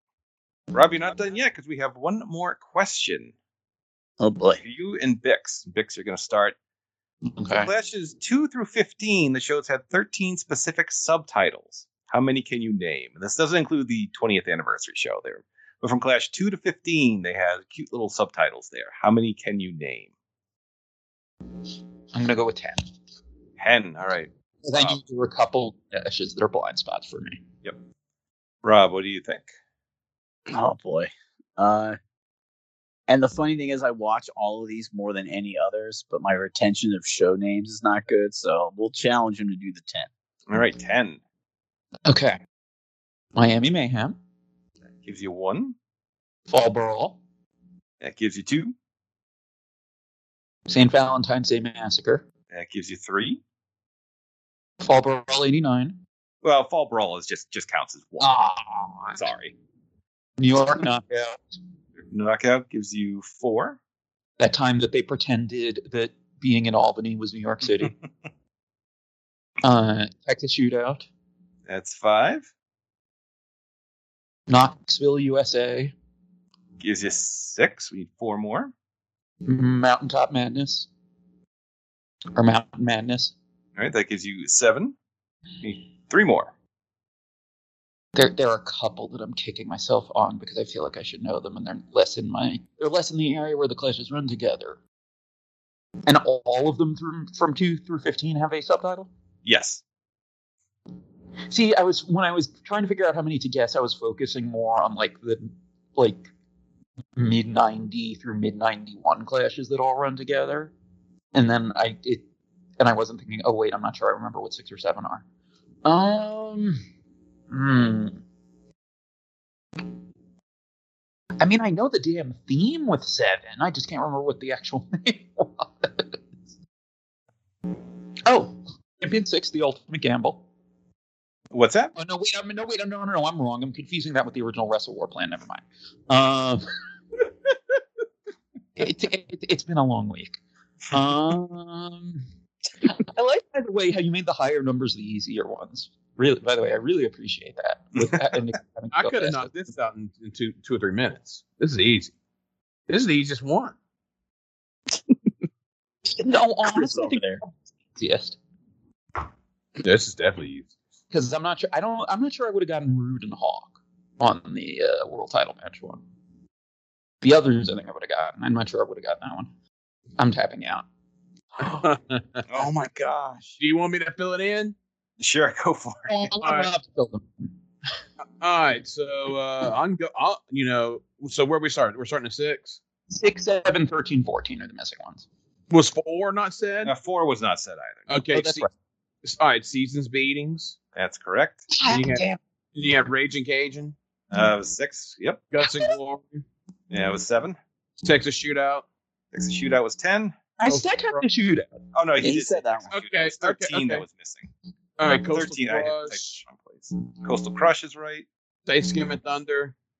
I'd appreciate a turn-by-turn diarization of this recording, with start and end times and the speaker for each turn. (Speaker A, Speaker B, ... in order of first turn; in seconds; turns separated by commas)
Speaker A: 0.7-3.3, Speaker B: 4.2-4.6, Speaker A: 4.6-6.6, Speaker C: 7.3-7.7, Speaker A: 7.5-20.1, Speaker C: 22.1-22.9, Speaker A: 23.6-25.0, Speaker C: 24.6-27.4, Speaker A: 28.6-29.5, Speaker B: 30.5-32.0, Speaker B: 33.1-40.1, Speaker A: 40.5-41.2, Speaker C: 42.1-42.4, Speaker C: 43.4-44.2, Speaker A: 45.0-45.8, Speaker C: 46.5-47.2, Speaker A: 48.0-48.8, Speaker C: 50.7-52.3, Speaker A: 52.5-53.4, Speaker C: 54.8-56.0, Speaker A: 56.4-58.4, Speaker C: 58.2-59.2, Speaker A: 59.1-59.5, Speaker C: 60.4-61.4, Speaker A: 62.1-63.8, Speaker C: 64.4-67.9, Speaker C: 69.6-71.1, Speaker A: 71.7-72.5, Speaker C: 74.5-75.9, Speaker A: 76.8-78.7, Speaker C: 79.4-80.9, Speaker C: 82.3-83.3, Speaker A: 83.8-85.0, Speaker A: 85.6-86.5, Speaker C: 88.2-94.8, Speaker C: 96.0-99.1, Speaker A: 99.5-99.8, Speaker C: 101.5-106.3, Speaker C: 107.2-110.7, Speaker C: 111.3-112.2, Speaker C: 112.8-115.2, Speaker C: 115.8-116.8, Speaker C: 117.5-118.2, Speaker C: 121.4-126.2, Speaker C: 128.3-130.4, Speaker A: 131.5-131.9, Speaker C: 132.0-136.6, Speaker C: 138.8-140.4, Speaker C: 140.9-142.2, Speaker C: 142.8-149.5, Speaker A: 148.0-148.2, Speaker D: 148.9-152.1, Speaker D: 152.9-153.8, Speaker C: 156.2-158.4, Speaker B: 156.6-157.4, Speaker D: 159.8-160.7, Speaker C: 161.1-166.0, Speaker C: 167.2-169.5, Speaker C: 170.2-170.8, Speaker B: 171.6-171.9, Speaker D: 171.6-172.4, Speaker B: 172.5-173.6, Speaker D: 173.6-174.8, Speaker A: 175.2-176.3, Speaker C: 176.1-177.5, Speaker D: 176.4-176.7, Speaker D: 178.4-182.8, Speaker C: 183.1-185.3, Speaker D: 185.7-186.9, Speaker A: 186.8-188.2, Speaker D: 188.1-188.7, Speaker C: 188.3-188.7, Speaker D: 189.2-190.8, Speaker A: 190.9-191.7, Speaker C: 191.7-192.4, Speaker D: 191.9-193.9, Speaker A: 194.3-195.4, Speaker D: 195.5-196.4, Speaker C: 195.7-195.9, Speaker A: 196.9-197.6, Speaker D: 198.0-198.9, Speaker A: 199.3-200.3, Speaker C: 200.6-201.8, Speaker D: 200.7-201.2, Speaker A: 201.9-204.5, Speaker B: 202.2-202.9, Speaker D: 202.9-204.0, Speaker D: 205.0-206.4, Speaker A: 205.1-208.3, Speaker D: 208.7-209.8